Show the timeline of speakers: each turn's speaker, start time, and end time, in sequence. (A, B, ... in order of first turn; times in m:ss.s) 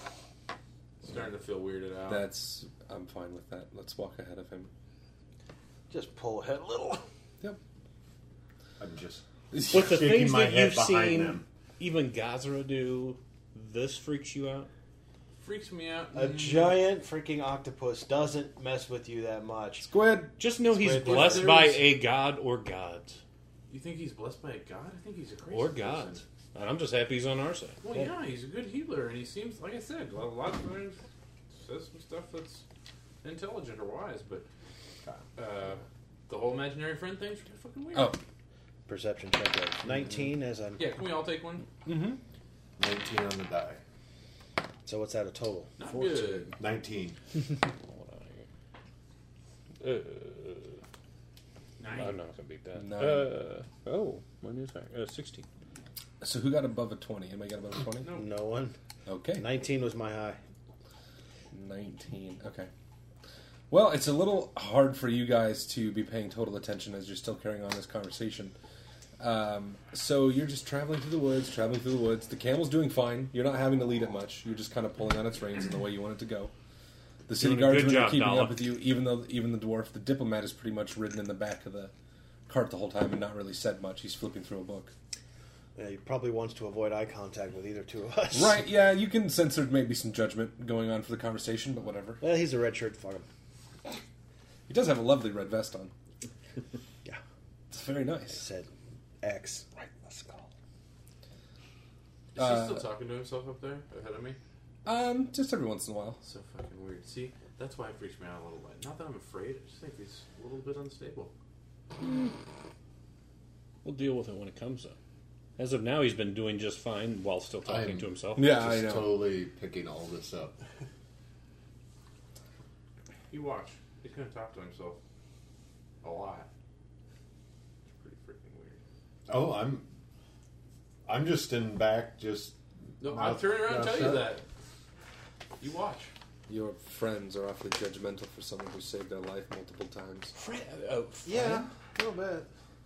0:01.0-0:02.3 A
0:02.1-0:04.7 B
0:05.9-0:07.0 C
0:08.8-0:11.4 D
0:09.5-0:09.9 B
0:09.7-0:14.7 E
0:15.4-0:16.8 A
0:16.1-0:19.9 C
0:19.8-0:20.3 B
0:20.4-0:23.2 E
0:20.7-0:21.6 C
0:21.0-0:21.9 A
0:23.7-0:26.2 A
0:25.5-0:27.8 E
0:27.8-0:31.0 A
0:31.5-0:32.6 A
0:33.2-0:34.4 A
0:35.4-0:38.1 A
0:37.9-0:38.2 B
0:38.9-0:40.8 C
0:40.8-0:41.7 A
0:41.9-0:42.2 B
0:42.8-0:43.8 D
0:44.8-0:45.7 C
0:45.8-0:46.5 A
0:46.6-0:47.2 D
0:47.9-0:48.4 E
0:49.8-0:50.8 E
0:51.8-0:52.2 A
0:51.9-0:55.5 E
0:52.8-0:53.4 B
0:56.2-0:58.1 B
0:58.0-0:58.3 A
0:58.1-0:58.7 C
0:59.0-0:59.5 B
0:59.4-1:00.4 C
1:01.5-1:02.7 B
1:03.7-1:08.6 B
1:09.2-1:16.5 B
1:17.3-1:21.9 B
1:17.4-1:18.7 E
1:22.5-1:24.9 B
1:25.8-1:28.6 C
1:28.3-1:32.2 B
1:32.2-1:33.3 C
1:34.7-1:35.9 B
1:37.7-1:38.4 B
1:38.3-1:38.7 C
1:39.2-1:40.5 C
1:42.3-1:44.4 A
1:42.4-1:42.9 B
1:44.8-1:46.2 B
1:46.2-1:51.3 A
1:53.8-1:55.0 E
1:55.6-1:58.6 E
1:57.6-2:00.6 D
1:58.4-1:59.3 B
2:03.3-2:05.0 A
2:06.0-2:06.5 A
2:07.9-2:08.8 A
2:09.3-2:09.9 D
2:11.0-2:12.6 D
2:13.0-2:14.4 A
2:13.1-2:14.2 D
2:15.6-2:16.1 A
2:16.5-2:20.3 B
2:20.4-2:21.6 E
2:21.2-2:22.5 C